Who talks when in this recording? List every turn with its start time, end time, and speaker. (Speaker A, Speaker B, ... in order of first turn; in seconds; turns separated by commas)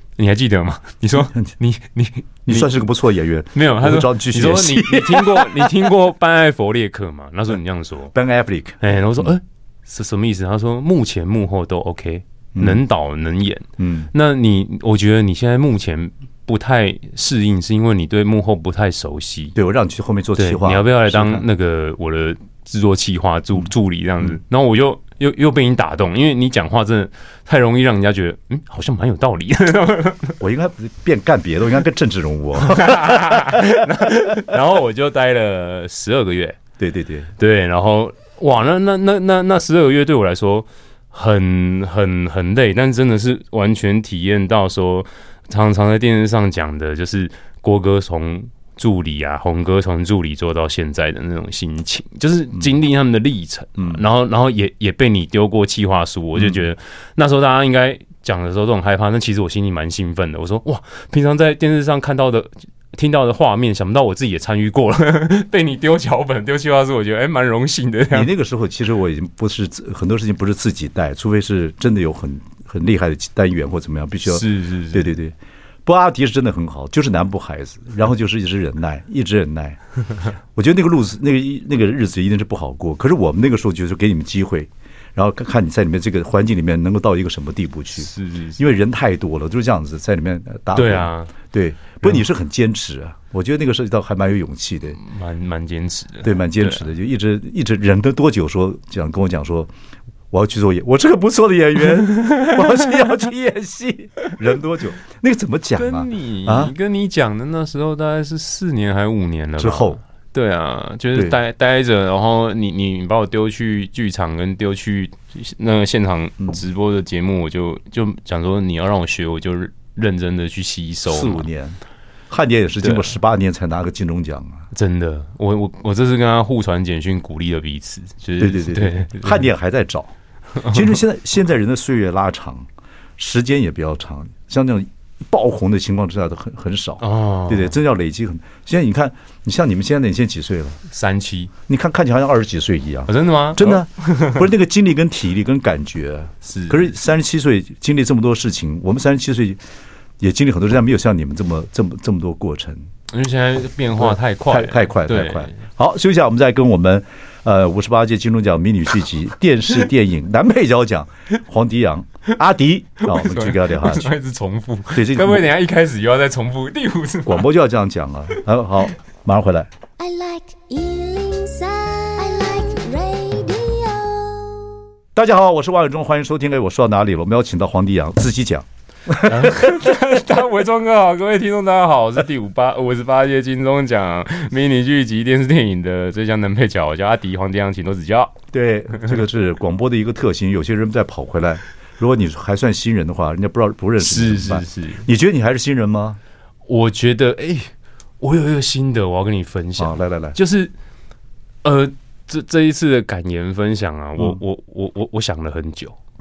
Speaker A: 0.2-2.7, Speaker B: 2.5-5.9, Speaker A: 3.5-8.1, Speaker B: 8.1-9.3, Speaker A: 8.8-19.6, Speaker B: 12.6-12.8, Speaker B: 13.8-14.1, Speaker B: 19.6-21.5, Speaker A: 20.4-30.4, Speaker B: 30.4-33.7, Speaker A: 32.6-36.6, Speaker B: 36.8-37.3, Speaker A: 37.4-68.3, Speaker B: 68.1-79.8, Speaker A: 74.3-75.1, Speaker B: 80.5-95.0, Speaker A: 88.0-88.6, Speaker A: 90.7-91.3, Speaker A: 95.0-96.9, Speaker B: 96.2-99.7, Speaker B: 100.3-106.7, Speaker A: 102.2-102.5, Speaker A: 105.8-121.5, Speaker B: 109.6-110.0, Speaker B: 121.1-121.8, Speaker B: 122.3-124.7, Speaker A: 122.8-123.1, Speaker A: 124.7-129.5, Speaker B: 128.4-130.1, Speaker A: 130.6-130.9, Speaker B: 130.7-140.8, Speaker A: 137.0-137.8, Speaker A: 140.9-141.5, Speaker B: 141.7-149.6, Speaker A: 143.1-144.4, Speaker A: 146.4-146.9, Speaker B: 150.2-152.9, Speaker A: 153.1-155.6, Speaker B: 154.0-164.1, Speaker A: 163.0-167.4, Speaker B: 164.9-165.5, Speaker B: 167.3-169.7, Speaker C: 170.0-174.7, Speaker B: 175.2-179.6, Speaker A: 179.2-188.3, Speaker B: 188.5-196.2, Speaker A: 194.0-195.1, Speaker A: 196.7-200.7, Speaker B: 199.8-200.4, Speaker A: 201.6-206.0